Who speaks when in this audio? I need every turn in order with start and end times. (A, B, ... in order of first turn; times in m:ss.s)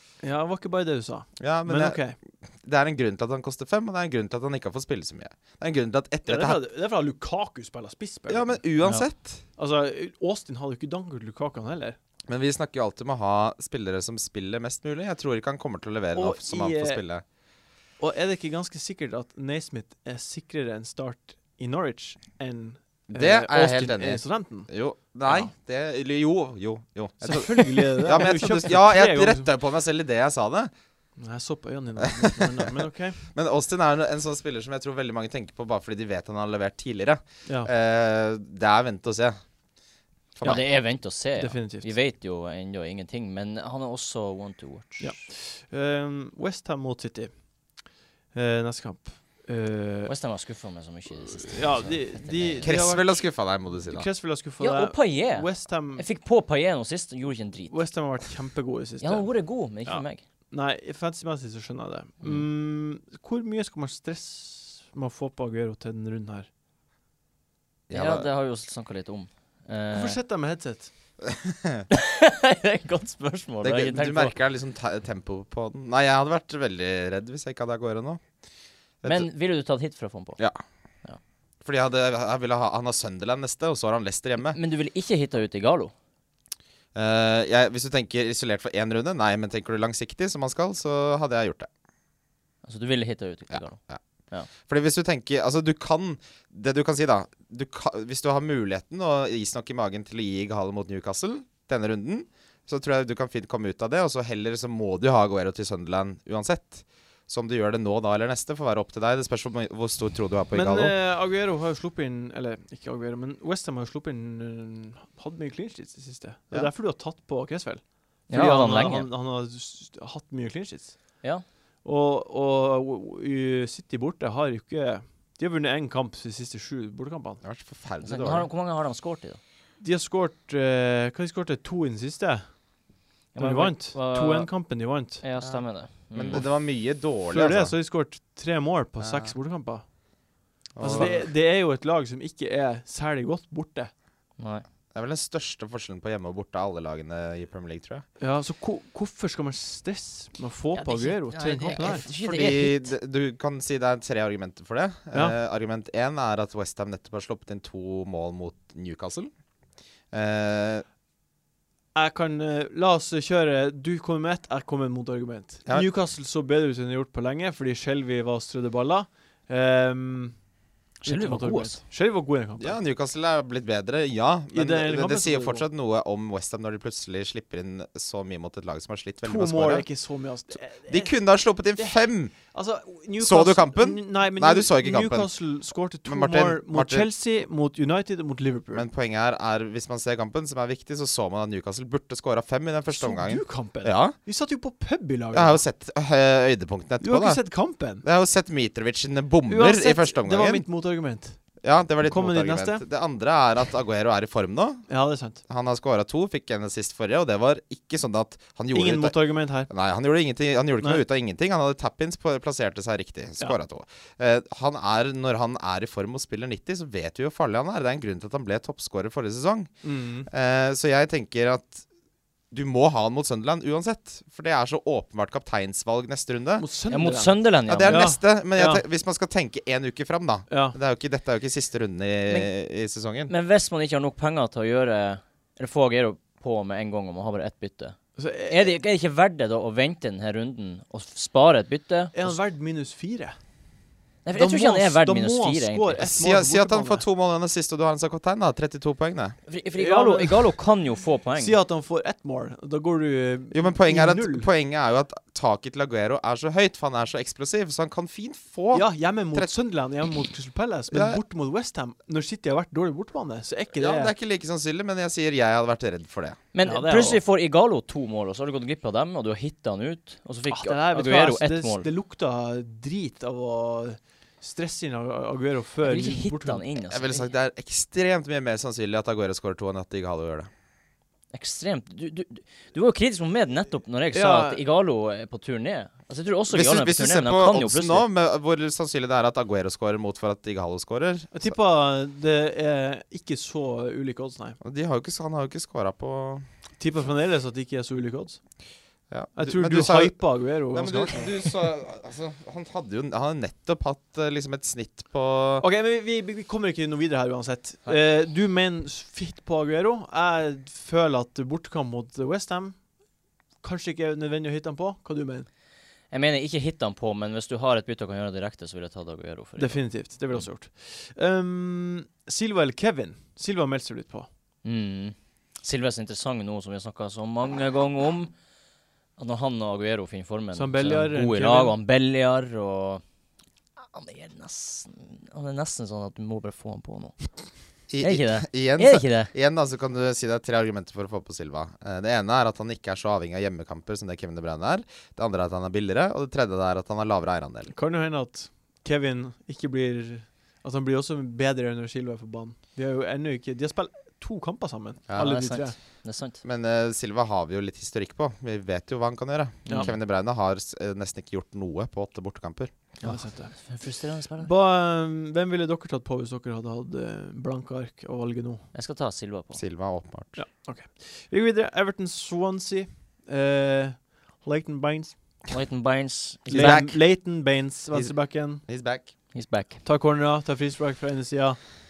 0:00.2-0:02.2 A
0:01.4-0:02.0 B
0:02.6-0:06.6 B
0:06.2-0:09.0 A
0:08.3-0:09.4 B
0:09.6-0:12.0 A
0:12.3-0:17.2 B
0:16.1-0:17.0 A
0:18.0-0:24.7 A
0:23.1-0:30.7 B
0:27.2-0:29.5 A
0:31.2-0:33.2 A
0:32.0-0:39.4 B
0:40.4-0:40.6 B
0:40.4-0:45.2 C
0:41.4-0:41.9 A
0:45.0-0:47.3 A
0:48.3-0:50.1 A
0:50.1-0:52.7 C
0:51.2-0:53.2 A
0:52.6-0:54.0 B
0:53.9-0:56.0 A
0:54.6-0:57.8 C
0:57.7-0:59.3 A
0:59.0-1:00.2 C
0:59.8-1:06.5 A
1:07.9-1:08.3 B
1:07.9-1:10.2 C
1:09.9-1:10.9 A
1:11.2-1:11.8 B
1:11.9-1:14.3 C
1:13.6-1:18.2 B
1:19.0-1:19.3 B
1:19.0-1:20.4 C
1:21.6-1:24.6 B
1:24.5-1:25.9 C
1:26.9-1:31.7 B
1:32.6-1:34.5 C
1:33.5-1:34.0 B
1:34.6-1:50.9 B
1:50.5-2:01.1 A
1:58.3-1:59.1 C
2:01.8-2:07.4 A
2:07.4-2:08.5 B
2:08.0-2:09.4 C
2:09.8-2:12.6 A
2:13.3-2:14.5 C
2:13.4-2:15.2 A
2:15.2-2:16.4 C
2:15.4-2:17.7 B
2:17.3-2:19.8 A
2:19.0-2:19.3 B
2:20.7-2:21.3 B
2:20.8-2:23.9 A
2:20.9-2:21.1 C
2:24.4-2:24.6 C
2:24.9-2:28.0 B
2:28.2-2:32.1 A
2:30.7-2:32.9 C
2:31.8-2:39.3 B
2:40.1-2:40.8 B
2:41.9-2:50.4 A
2:51.0-2:51.8 C
2:51.0-2:52.8 A
2:52.6-2:59.8 B
2:54.5-2:55.6 A
2:59.2-3:01.1 A
3:00.7-3:02.3 B
3:01.8-3:08.9 A
3:03.2-3:05.3 B
3:06.0-3:07.1 B
3:08.7-3:14.2 B
3:12.9-3:15.6 A
3:15.3-3:17.4 B
3:17.0-3:18.0 A
3:18.0-3:20.6 B
3:19.5-3:21.4 A
3:21.6-3:24.8 B
3:22.0-3:22.8 A
3:24.9-3:25.4 A
3:25.5-3:29.2 B
3:28.7-3:29.7 A
3:29.7-3:39.7 B
3:39.8-3:40.3 A
3:40.3-3:41.8 B
3:42.5-3:46.6 B
3:46.6-3:48.8 A
3:46.9-3:48.1 C
3:47.7-3:53.3 B
3:50.5-3:50.8 A
3:53.3-4:02.4 C
3:58.2-3:58.8 A
4:02.1-4:03.4 A
4:04.2-4:06.0 C
4:04.3-4:07.0 A
4:06.0-4:09.4 B
4:09.5-4:11.6 C
4:09.7-4:10.5 A
4:11.4-4:14.5 A
4:13.5-4:19.5 B
4:18.7-4:24.1 A
4:20.9-4:21.2 B
4:23.7-4:26.4 B
4:26.5-4:31.9 C
4:26.6-4:27.2 A
4:30.5-4:36.6 A
4:35.8-4:37.3 C
4:36.9-4:40.5 B
4:41.3-4:48.0 C
4:44.1-4:44.6 A
4:46.5-4:51.5 B
4:51.3-4:54.6 A
4:54.6-4:56.4 B
4:56.8-4:58.4 A
4:59.1-5:05.6 B
4:59.3-5:01.5 A
5:05.6-5:12.8 A
5:13.6-5:15.5 A
5:16.1-5:20.4 C
5:19.6-5:24.3 A
5:24.6-5:28.3 C
5:29.2-5:33.0 C
5:30.5-5:31.7 A
5:33.8-5:37.4 C
5:37.9-5:47.7 B
5:38.0-5:39.3 C
5:47.7-5:55.8 A
5:55.1-5:55.3 B
5:55.2-5:56.4 C
5:56.4-6:02.7 B
5:59.6-5:59.9 C
6:03.0-6:03.6 A
6:03.0-6:04.5 C
6:04.4-6:08.6 A
6:08.7-6:09.6 C
6:09.5-6:10.4 B
6:10.4-6:15.4 A
6:15.5-6:16.9 C
6:16.5-6:18.6 A
6:16.5-6:17.0 B
6:17.9-6:19.1 B
6:19.3-6:19.8 C
6:19.8-6:21.6 A